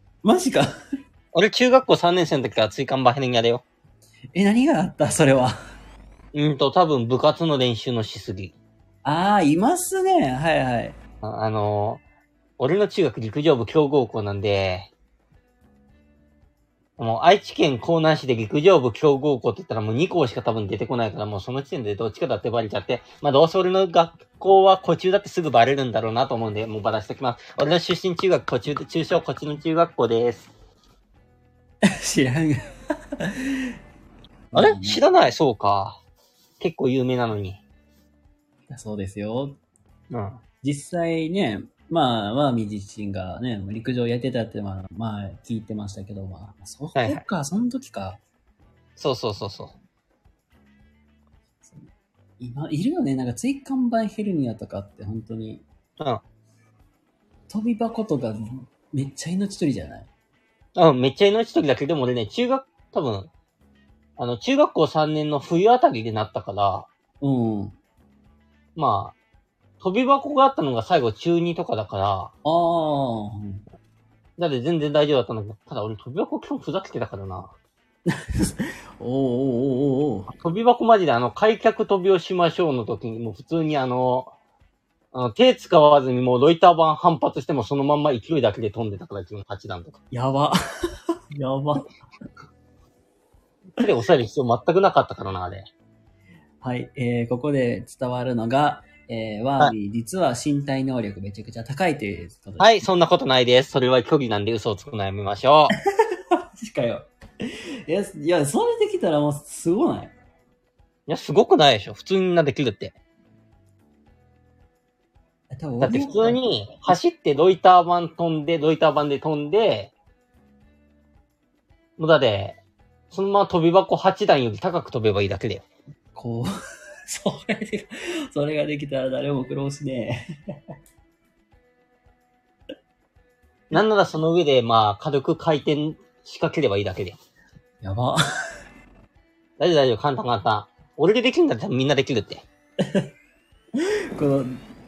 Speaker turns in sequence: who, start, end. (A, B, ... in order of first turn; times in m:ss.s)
0:00.2-0:00.7 A
0:01.3-0:03.6 B
0:04.4-0:05.6 A
0:06.3-0:08.5 B
0:09.0-0:11.0 A
0:11.2-0:12.0 B
0:12.6-0:14.9 B
0:17.0-0:30.5 B
0:31.8-0:32.6 A
0:33.2-0:33.7 A
0:34.5-0:35.0 A
0:34.5-0:36.0 B
0:36.6-0:37.6 B
0:38.7-0:39.6 A
0:40.1-0:40.4 B
0:40.6-0:48.2 A
0:47.0-0:47.2 B
0:49.0-0:49.8 B
0:51.6-0:55.6 A
0:57.5-1:00.1 A
1:00.8-1:03.3 B
1:04.2-1:06.9 B
1:07.2-1:07.8 A
1:08.8-1:09.2 B
1:09.8-1:12.3 B
1:12.4-1:13.6 A
1:14.4-1:17.5 B
1:18.1-1:20.3 A
1:20.4-1:24.3 B
1:25.1-1:30.0 B
1:30.1-1:30.6 A
1:31.4-1:31.9 A
1:33.8-1:35.7 B
1:36.6-1:42.8 A
1:42.6-1:45.8 B
1:46.6-1:50.1 A
1:51.1-1:53.0 B
1:55.5-1:56.4 A
1:55.8-1:59.9 B
2:02.0-2:02.6 B
2:03.1-2:05.6 B
2:06.2-2:06.5 A
2:07.1-2:10.2 A
2:13.7-2:17.2 B
2:17.8-2:18.2 A
2:19.6-2:22.4 B
2:22.8-2:23.1 A
2:23.8-2:24.6 A